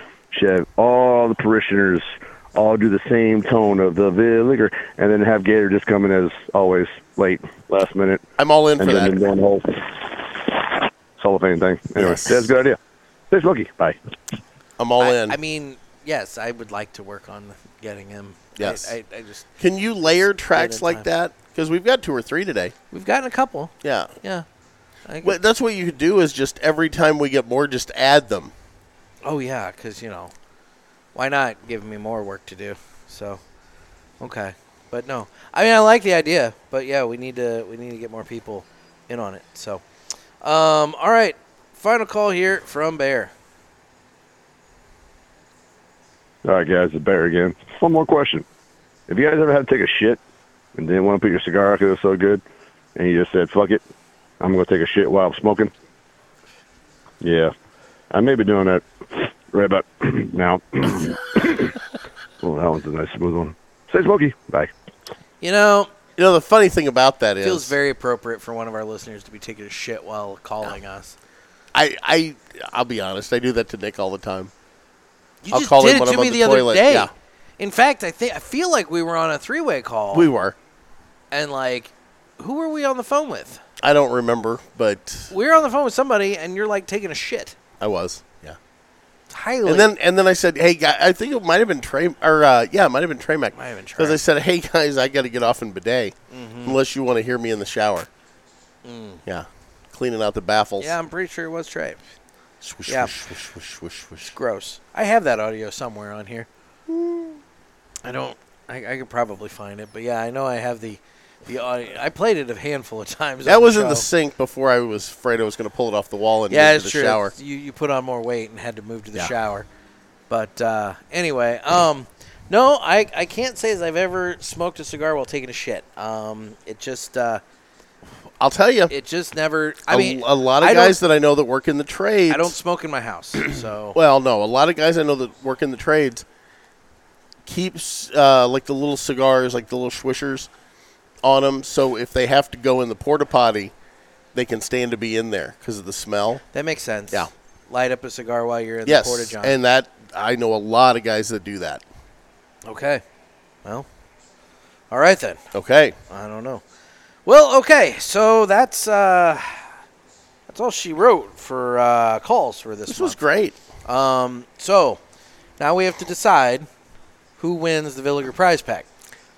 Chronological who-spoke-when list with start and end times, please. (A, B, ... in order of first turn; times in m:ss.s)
0:00.3-0:08.2 A
0:08.4-0:09.2 B
0:08.8-0:10.6 A
0:11.2-0:12.8 A
0:12.0-0:12.5 B
0:13.3-0:14.0 A
0:14.8-0:15.4 B
0:15.0-0:19.5 C
0:18.6-0:19.0 B
0:19.6-0:22.7 B
0:20.5-0:21.1 C
0:22.9-0:24.5 C
0:23.8-0:24.1 B
0:25.1-0:25.4 C
0:25.2-0:28.5 B
0:29.2-0:30.3 C
0:31.2-0:33.4 C
0:34.2-0:39.8 C
0:40.4-0:43.3 C
0:46.4-0:48.4 A
0:49.1-0:50.2 A
0:50.8-0:52.4 A
0:53.0-0:53.8 A
0:54.4-0:55.7 A
0:57.2-0:57.5 A
0:58.1-1:01.8 A
1:02.4-1:04.7 A
1:05.4-1:05.9 C
1:06.2-1:07.8 B
1:07.4-1:11.2 C
1:11.7-1:14.5 B
1:15.4-1:20.3 C
1:15.5-1:17.1 B
1:20.1-1:20.6 B
1:21.3-1:23.6 C
1:23.8-1:25.3 B
1:25.3-1:27.6 C
1:27.8-1:28.6 B
1:29.3-1:29.9 C
1:29.6-1:38.1 B
1:33.6-1:34.2 C
1:36.3-1:36.8 C
1:38.8-1:39.2 C
1:39.3-1:41.0 B
1:40.8-1:42.0 C
1:42.6-1:44.4 B
1:42.9-1:43.1 C
1:44.3-1:46.5 C
1:46.9-1:47.4 B
1:48.0-1:54.1 C
1:53.4-1:57.3 B
1:56.5-1:59.7 C
2:00.3-2:07.4 C
2:08.4-2:08.9 B
2:08.9-2:11.0 C
2:09.9-2:12.6 B
2:12.3-2:14.0 C
2:13.9-2:16.2 B
2:17.5-2:20.5 B
2:21.2-2:23.7 B
2:24.3-2:26.4 B
2:26.5-2:29.6 C
2:28.8-2:31.8 B
2:32.7-2:33.0 C
2:34.9-2:35.4 C
2:35.5-2:36.0 B
2:36.1-2:36.6 C
2:37.3-2:39.7 C
2:40.5-2:43.2 C
2:42.9-2:43.6 B
2:43.8-2:45.0 C
2:45.6-2:46.7 C
2:47.4-2:48.9 C